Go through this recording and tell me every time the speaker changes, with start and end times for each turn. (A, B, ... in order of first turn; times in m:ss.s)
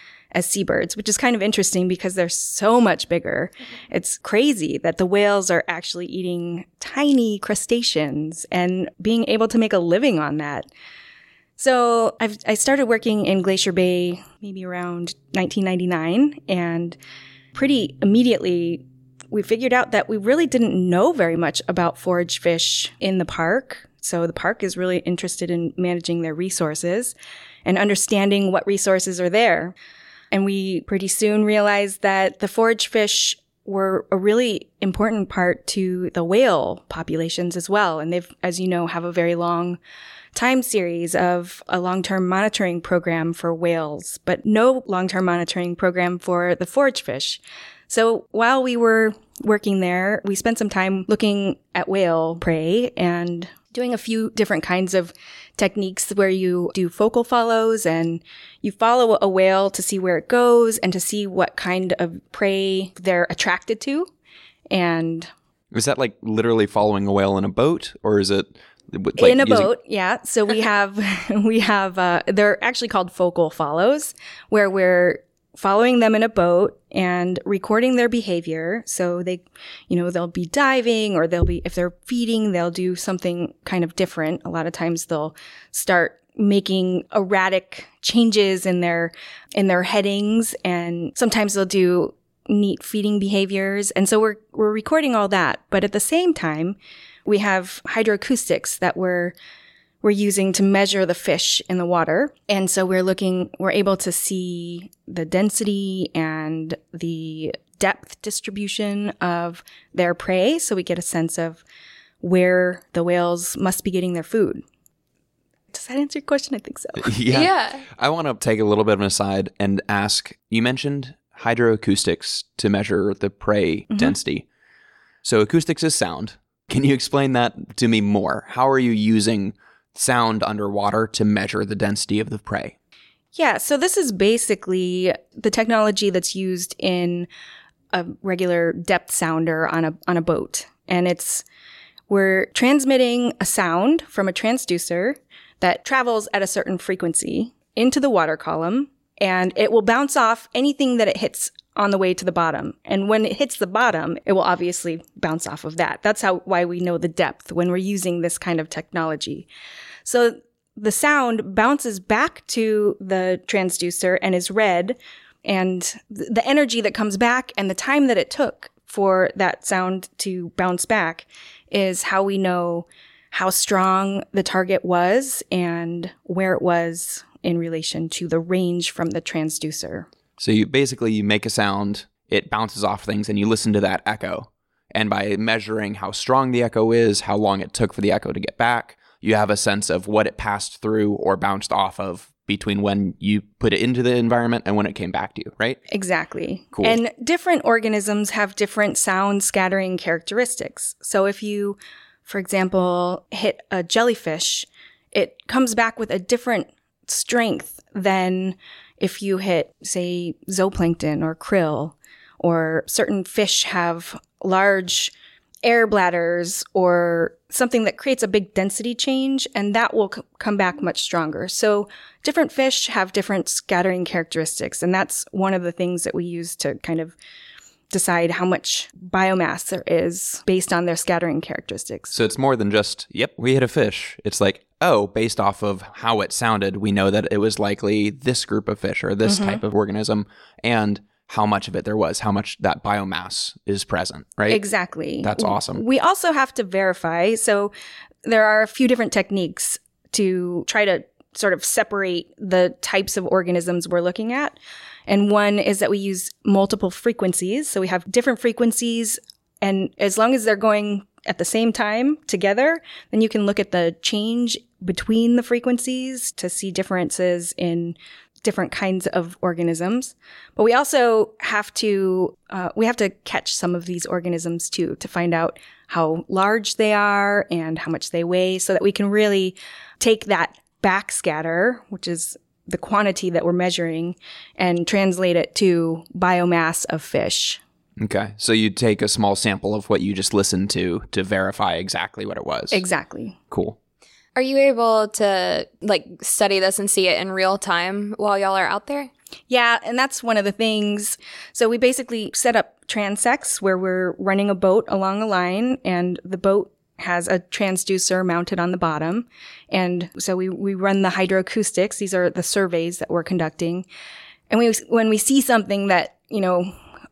0:00.3-0:10.7 A
0:11.6-0:17.0 A
0:17.5-0:27.1 A
0:27.6-0:29.7 A
0:30.3-0:39.8 A
0:40.3-1:04.1 A
1:04.7-1:05.3 A
1:05.7-1:09.7 B
1:09.2-1:39.3 A
1:40.0-1:51.6 A
1:52.2-1:54.6 A
1:55.7-1:57.1 A
1:57.0-2:04.4 B
1:57.3-1:57.8 C
2:03.9-2:04.2 A
2:05.2-2:12.7 B
2:13.3-2:17.3 A
2:17.9-2:21.4 A
2:22.1-2:39.5 A
2:40.0-3:00.1 A
3:00.4-3:15.8 B
3:15.9-3:35.1 A
3:35.6-3:47.2 A
3:47.9-3:52.2 A
3:52.1-4:04.6 B
3:59.2-3:59.6 A
4:04.5-4:07.7 A
4:05.2-4:05.8 B
4:08.2-4:47.6 A
4:48.0-4:52.8 B
4:52.7-4:53.4 A
4:53.5-4:53.8 B
4:54.3-4:59.1 C
4:59.5-5:13.8 A
5:14.5-5:16.7 A